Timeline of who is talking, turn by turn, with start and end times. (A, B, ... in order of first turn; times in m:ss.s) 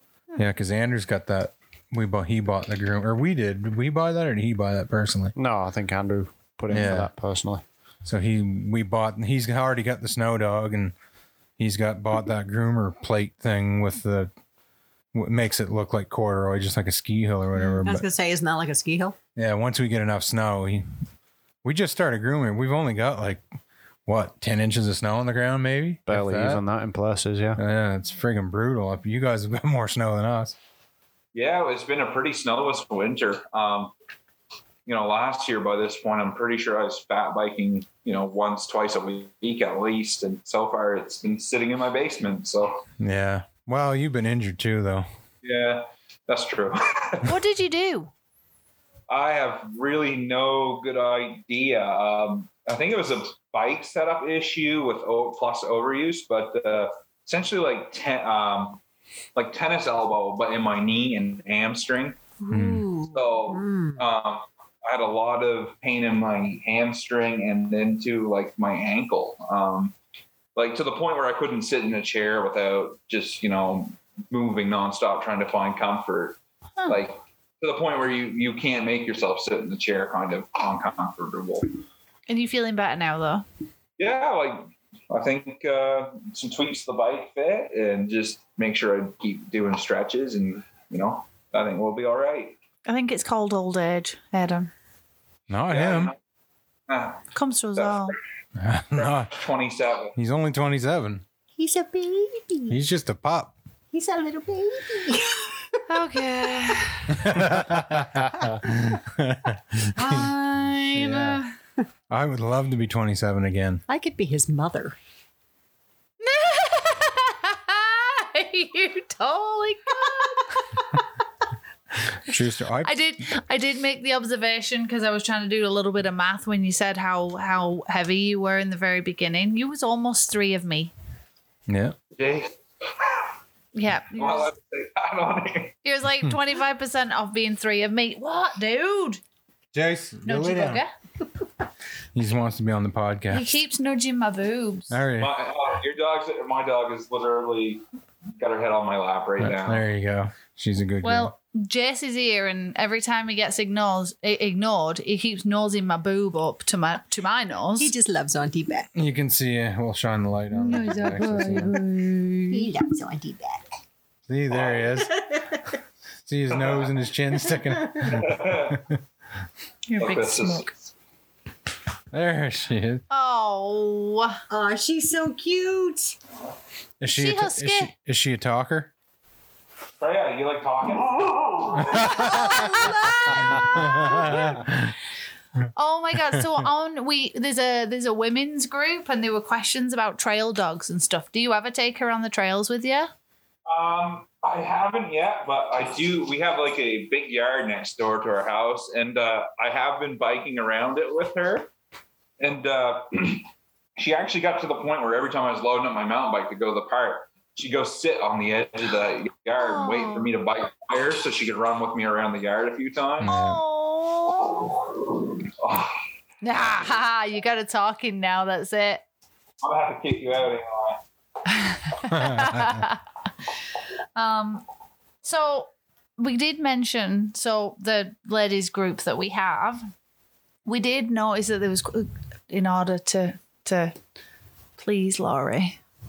0:00.4-0:05.3 A
0:05.4-0:07.6 B
0:06.7-0:07.1 A
0:08.0-0:10.9 A
0:11.6-0:14.3 A
0:15.1-0:18.1 A
0:17.8-0:19.2 C
0:19.4-0:20.9 A
0:21.6-0:23.4 A
0:24.1-0:26.6 A
0:26.1-0:27.6 B
0:27.6-0:30.6 A
0:31.3-0:33.9 D
0:34.9-0:42.8 D
0:43.0-0:45.1 A
0:45.4-0:47.4 D
0:47.2-0:48.1 E
0:49.1-0:58.8 D
0:59.4-1:02.2 D
1:02.4-1:04.0 C
1:02.5-1:02.9 A
1:03.1-1:09.9 D
1:10.6-1:21.7 D
1:22.3-1:23.4 E
1:24.0-1:32.6 D
1:32.9-1:34.7 E
1:35.5-1:36.1 A
1:35.7-1:36.2 D
1:36.9-1:37.3 D
1:37.3-1:38.2 E
1:37.8-1:38.1 D
1:38.6-1:39.3 A
1:38.9-1:40.1 D
1:40.2-1:41.2 A
1:41.6-1:42.8 C
1:42.7-1:43.5 A
1:43.9-1:45.8 C
1:45.9-1:47.3 E
1:47.1-1:50.3 A
1:50.0-1:51.5 E
1:51.0-1:51.4 A
1:52.1-1:53.8 A
1:53.9-1:55.0 C
1:56.2-2:01.0 E
2:02.0-2:03.0 A
2:02.8-2:10.9 E
2:11.7-2:12.0 A
2:12.2-2:13.3 D
2:13.7-2:14.5 E
2:14.2-2:15.7 D
2:15.8-2:19.2 E
2:19.7-2:20.8 A
2:20.2-2:20.9 E
2:22.1-2:23.6 A
2:23.3-2:25.0 E
2:24.9-2:25.3 A
2:25.2-2:27.8 D
2:28.4-2:29.8 D
2:29.4-2:31.3 A
2:31.0-2:37.9 E
2:37.8-2:38.9 C
2:38.9-2:41.8 A
2:40.6-2:42.7 E
2:42.5-2:43.6 C
2:44.3-2:45.3 A
2:44.5-2:45.0 D
2:45.0-2:45.6 C
2:46.3-2:49.0 A
2:46.6-2:46.8 D
2:48.0-2:48.8 D
2:49.9-2:50.7 E
2:50.0-2:50.7 D
2:52.1-2:53.0 A
2:53.1-2:54.4 E
2:54.5-2:56.2 C
2:57.0-2:58.9 A
2:57.1-2:57.9 E
3:00.0-3:02.5 D
3:02.0-3:02.4 A
3:02.0-3:04.6 E
3:03.7-3:05.0 A
3:05.8-3:13.1 E
3:06.3-3:06.6 A
3:13.7-3:21.7 D
3:22.4-3:33.3 D
3:29.6-3:30.3 E
3:33.2-3:33.6 A
3:33.2-3:34.7 E
3:35.5-3:36.0 D
3:36.4-3:39.0 E
3:39.6-3:41.0 D
3:41.5-3:43.0 E
3:42.1-3:42.8 A
3:44.1-3:44.6 E
3:45.2-3:49.8 E
3:50.7-3:54.0 E
3:54.8-3:55.8 E